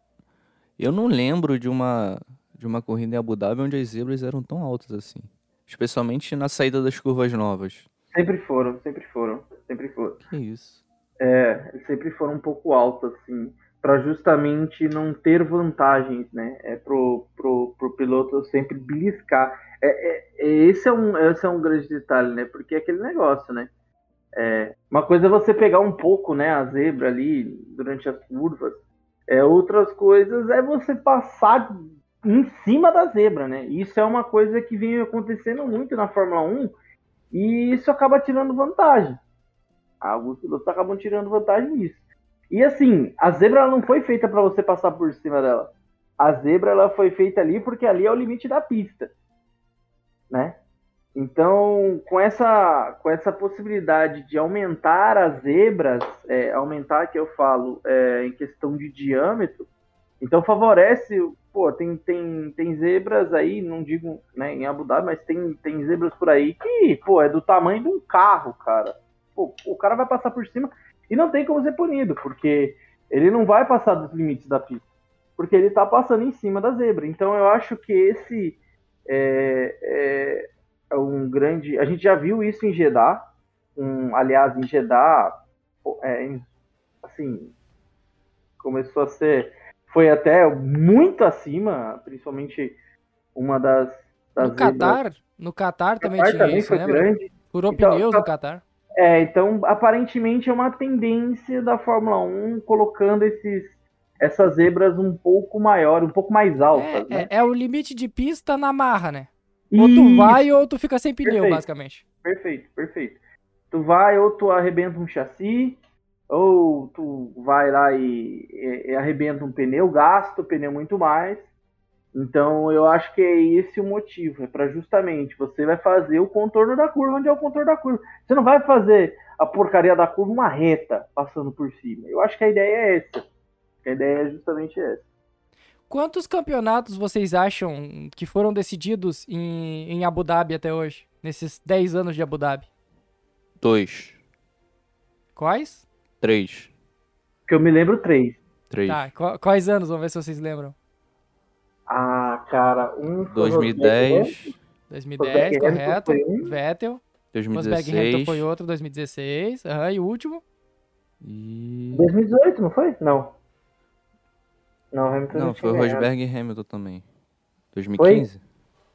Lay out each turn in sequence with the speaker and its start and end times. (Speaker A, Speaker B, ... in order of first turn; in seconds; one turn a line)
Speaker A: 0.8-7.9
Speaker B: 8.1-10.2
Speaker A: 10.3-10.8
Speaker B: 11.2-23.7
Speaker B: 24.4-36.7
Speaker B: 37.3-39.2
Speaker B: 40.0-49.1
Speaker B: 50.3-50.6
Speaker B: 51.1-59.7
Speaker B: 60.2-74.9
Speaker B: 75.4-86.5
Speaker B: 87.0-87.5
Speaker B: 88.6-92.8
Speaker B: 93.3-95.0
Speaker C: 94.4-98.6
Speaker B: 96.0-98.3
Speaker B: 99.0-107.3
Speaker C: 106.7-112.0
Speaker B: 109.7-110.5
Speaker B: 111.2-111.7
Speaker B: 112.2-113.2
Speaker B: 113.7-115.8
Speaker B: 116.3-121.5
Speaker B: 122.1-133.2
Speaker B: 133.8-135.1
Speaker C: 135.9-142.7
Speaker A: 143.6-144.2
Speaker C: 145.4-145.8
Speaker A: 146.2-146.7
Speaker B: 147.5-148.4
Speaker A: 148.7-149.1
Speaker C: 148.9-150.8
Speaker B: 151.9-154.5
Speaker A: 153.3-154.5
Speaker C: 154.9-157.0
Speaker B: 155.2-156.6
Speaker A: 157.3-158.5
Speaker C: 157.5-160.4
Speaker A: 161.2-162.1
Speaker B: 161.9-163.3
Speaker B: 164.9-166.1
Speaker A: 165.3-167.1
Speaker A: 167.7-168.4
Speaker B: 168.0-168.3